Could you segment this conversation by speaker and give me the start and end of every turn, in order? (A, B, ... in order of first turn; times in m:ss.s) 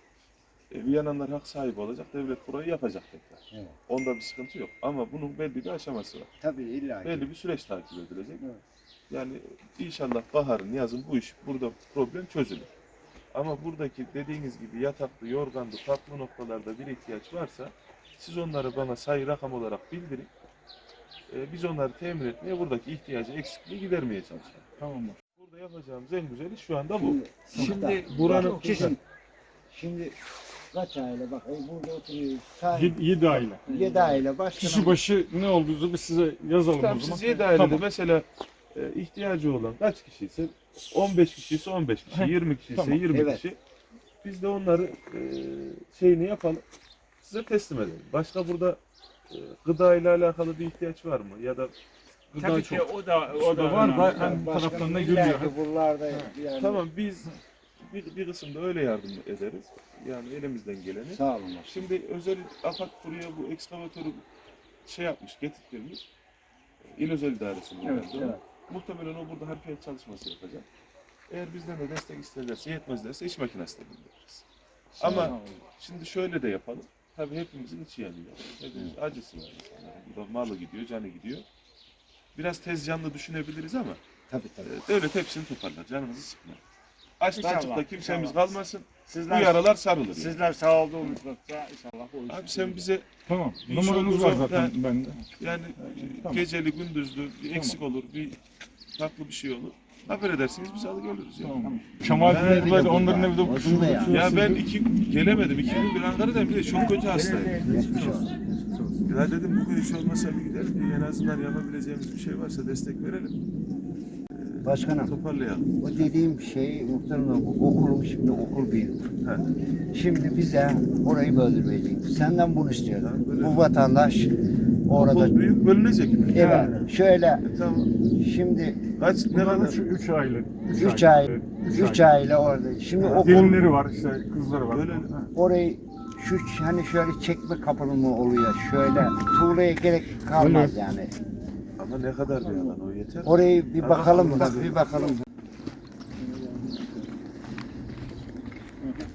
0:00.7-0:06.3 A
0:03.5-0:03.8 B
0:06.4-0:07.3 B
0:07.0-0:08.4 A
0:09.1-0:12.7 A
0:13.3-0:20.3 A
0:21.3-0:24.7 A
0:24.8-0:25.1 C
0:24.8-0:25.1 D
0:25.4-0:29.0 A
0:27.0-0:29.0 B
0:27.5-0:28.9 C
0:27.6-0:28.2 D
0:29.7-0:30.2 B
0:30.7-0:35.0 B
0:32.7-0:33.7 D
0:33.7-0:34.7 C
0:34.7-0:37.8 D
0:36.8-0:43.6 A
0:42.2-0:43.0 C
0:43.1-0:43.4 B
0:44.2-0:46.6 A
0:47.2-0:48.8 A
0:49.3-0:51.7 A
0:52.3-0:54.4 A
0:52.4-0:55.2 C
0:53.5-0:55.5 D
0:54.0-0:56.8 B
0:56.6-1:04.2 A
1:01.1-1:01.9 B
1:04.8-1:06.1 A
1:06.8-1:10.6 A
1:11.3-1:14.4 A
1:15.0-1:21.5 A
1:15.0-1:15.4 B
1:15.2-1:15.6 C
1:22.4-1:24.0 A
1:24.3-1:24.7 B
1:24.6-1:26.6 A
1:27.2-1:30.4 A
1:27.4-1:28.4 C
1:29.1-1:32.9 C
1:32.3-1:33.1 A
1:33.3-1:35.1 D
1:33.6-1:35.2 C
1:33.6-1:34.7 A
1:35.4-1:38.4 A
1:39.0-1:43.1 A
1:41.4-1:44.1 C
1:41.9-1:44.6 D
1:42.0-1:44.3 B
1:44.0-1:47.6 A
1:45.6-1:45.9 B
1:47.1-1:48.3 C
1:47.2-1:48.3 D
1:47.6-1:48.3 B
1:49.1-1:53.4 A
1:54.3-1:56.0 A
1:54.6-1:55.2 B
1:55.8-1:59.0 B
1:59.2-1:59.5 A
1:59.9-2:04.4 B
2:03.0-2:03.7 A
2:04.9-2:05.4 B
2:04.9-2:06.8 A
2:06.3-2:07.4 B
2:06.4-2:06.8 D
2:07.4-2:07.9 A
2:08.2-2:08.8 B
2:09.0-2:09.8 A
2:09.3-2:12.1 D
2:10.7-2:13.6 B
2:13.0-2:13.6 A
2:13.2-2:15.3 D
2:14.7-2:15.1 A
2:15.4-2:21.1 B
2:20.4-2:20.8 D
2:21.8-2:25.1 A
2:23.3-2:25.2 B
2:26.3-2:26.8 D